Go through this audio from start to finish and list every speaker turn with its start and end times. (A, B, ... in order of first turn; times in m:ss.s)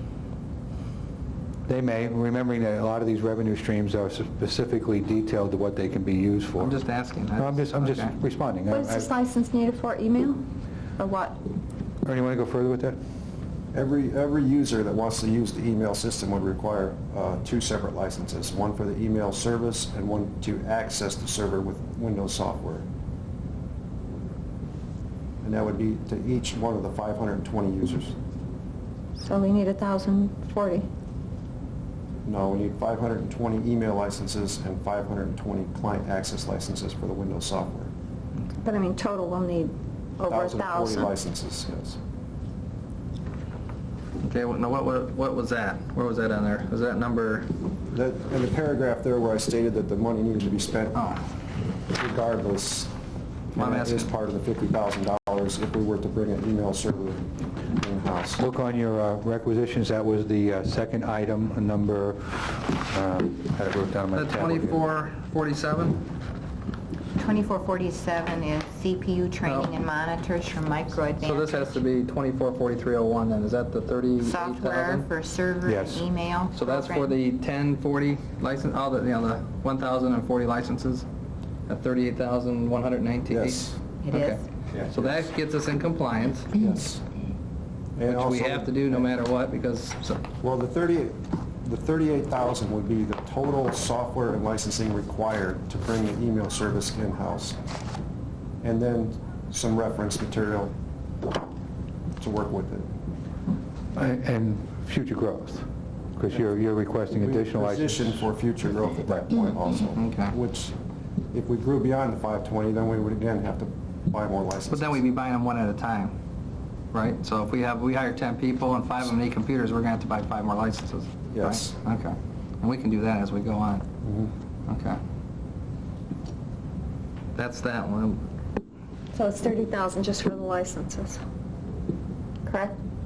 0:01.7-0:06.8 A
0:06.6-0:08.2 B
0:07.4-0:09.1 A
0:08.7-0:11.4 C
0:12.0-0:13.0 A
0:13.7-0:22.9 D
0:25.4-0:28.2 D
0:29.2-0:30.9 C
0:32.2-0:37.9 D
0:38.6-0:41.1 C
0:40.3-0:42.0 D
0:44.2-0:47.5 B
0:47.9-0:51.0 D
0:51.9-0:52.9 D
0:53.5-0:58.4 D
0:53.6-0:54.1 B
0:58.4-1:04.9 A
1:04.1-1:06.1 B
1:07.2-1:11.7 E
1:09.4-1:09.7 B
1:11.2-1:15.1 B
1:14.2-1:17.2 E
1:15.7-1:16.1 A
1:16.5-1:21.1 B
1:21.7-1:26.5 B
1:23.3-1:23.8 D
1:24.0-1:24.4 E
1:24.7-1:25.3 D
1:26.5-1:27.0 D
1:28.0-1:29.1 D
1:28.0-1:30.2 B
1:30.4-1:37.6 D
1:38.6-1:40.7 D
1:42.2-1:42.9 D
1:43.9-1:45.7 A
1:46.2-1:48.2 A
1:47.1-1:50.8 D
1:50.0-1:50.3 B
1:51.3-1:55.0 D
1:54.7-1:56.1 B
1:56.9-2:03.8 B
2:01.3-2:01.8 D
2:04.0-2:04.3 D
2:04.7-2:05.0 B
2:07.4-2:08.2 B
2:09.1-2:11.2 C
2:12.5-2:12.8 C